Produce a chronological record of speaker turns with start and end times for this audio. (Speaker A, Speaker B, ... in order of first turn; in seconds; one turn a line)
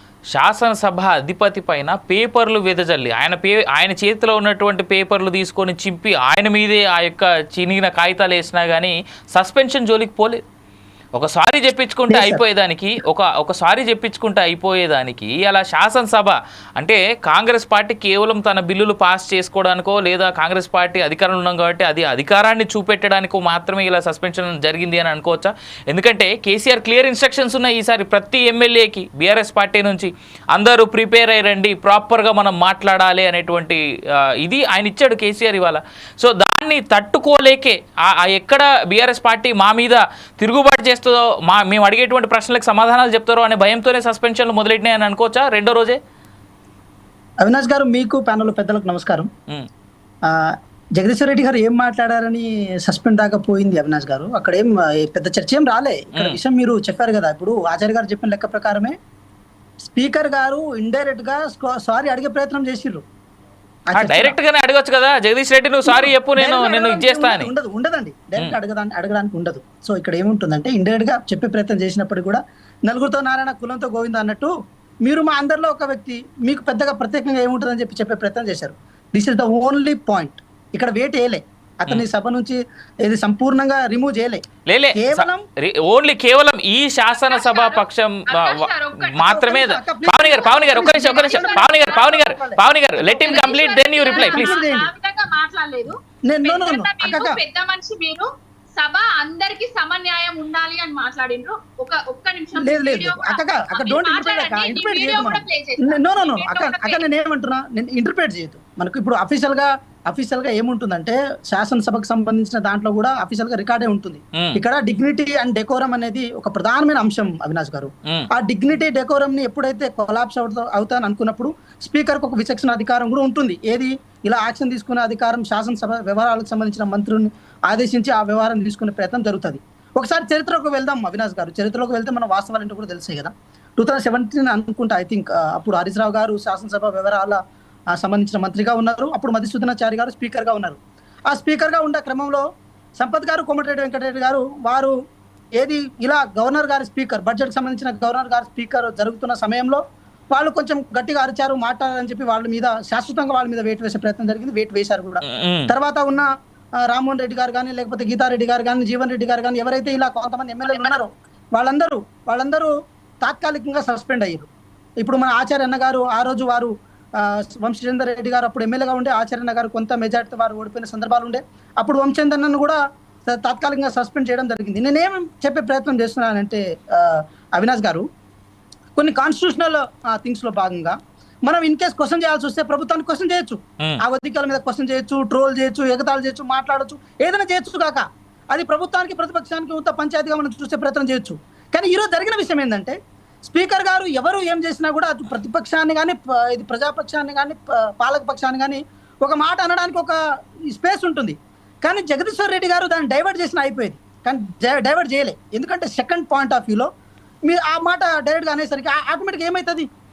Speaker A: 0.3-10.4
Speaker A: 11.2-46.0
Speaker B: 12.1-12.4
Speaker B: 47.4-49.3
Speaker B: 50.3-59.0
Speaker B: 59.8-63.0
Speaker B: 63.9-64.4
Speaker A: 63.9-67.5
Speaker B: 65.8-74.5
Speaker B: 75.0-84.4
Speaker A: 84.7-94.5
Speaker B: 84.9-85.4
Speaker C: 87.1-89.4
Speaker B: 89.2-93.5
Speaker C: 90.4-92.2
Speaker C: 93.1-107.0
Speaker B: 94.1-94.9
Speaker B: 96.3-97.4
Speaker B: 102.6-137.4
Speaker A: 114.3-114.6
Speaker B: 137.9-140.8
Speaker B: 141.3-142.4
Speaker B: 143.0-144.9
Speaker B: 145.6-149.8
Speaker B: 150.3-156.3
Speaker A: 155.2-155.7
Speaker B: 156.9-162.7
Speaker B: 163.2-164.5
Speaker B: 165.0-178.0
Speaker B: 179.0-200.2
Speaker B: 200.7-206.9
Speaker B: 207.5-209.9